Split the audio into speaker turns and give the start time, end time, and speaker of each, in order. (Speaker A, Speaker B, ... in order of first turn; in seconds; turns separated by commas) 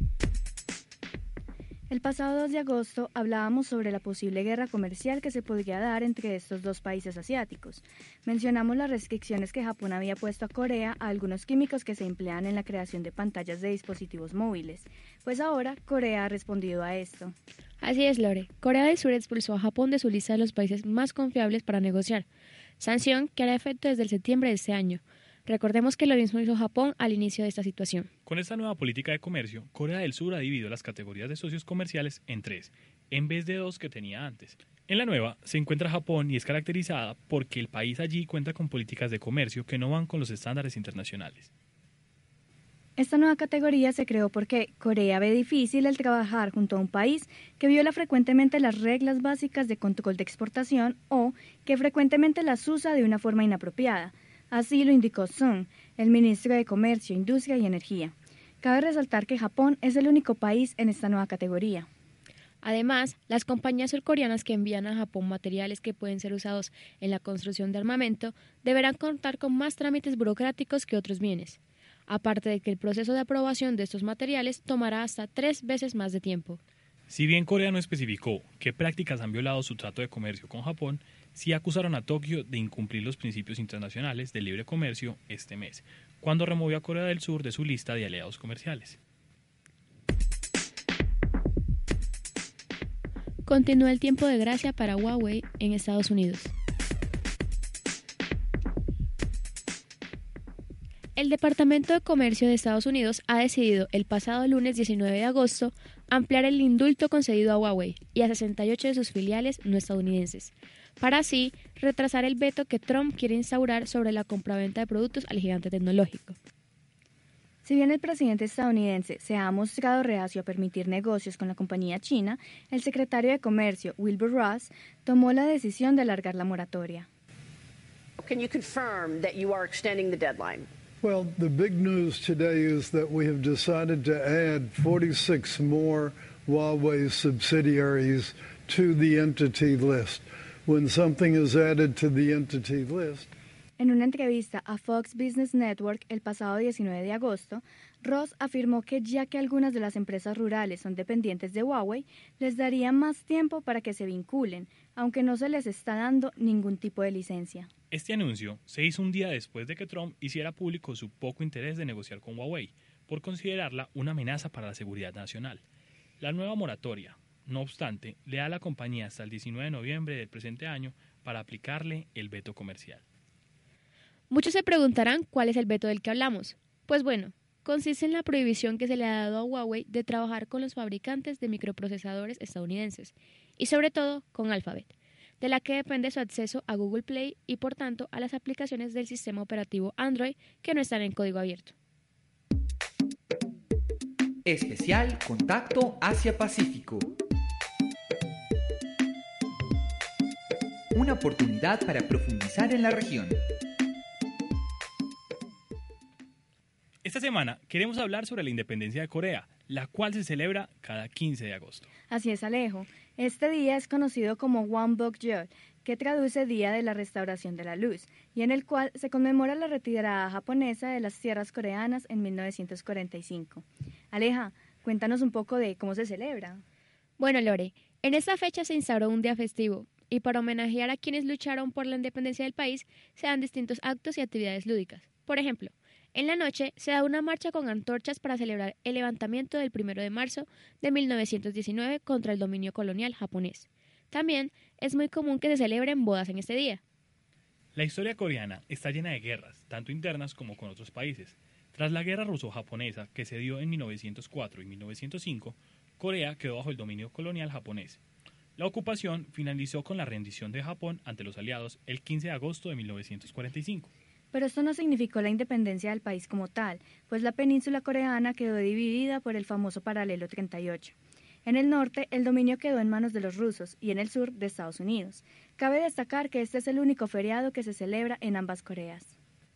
Speaker A: 1.9-17.4, Speaker B: 17.8-22.3, Speaker B: 22.8-28.1, Speaker C: 28.3-41.5, Speaker A: 43.0-61.9, Speaker B: 62.6-76.6, Speaker C: 77.1-89.0, Speaker B: 93.5-96.5, Speaker B: 101.2-116.4, Speaker A: 117.6-127.1, Speaker D: 128.2-130.7, Speaker E: 131.0-143.3, Speaker A: 143.8-157.7, Speaker C: 157.9-165.6, Speaker C: 166.2-173.0, Speaker B: 174.3-191.7, Speaker F: 194.4-197.1, Speaker F: 200.9-203.4, Speaker C: 207.0-211.9, Speaker A: 212.1-226.6, Speaker B: 227.2-246.8, Speaker C: 247.8-258.0, Speaker C: 258.6-263.9, Speaker A: 264.3-270.9, Speaker A: 271.4-279.1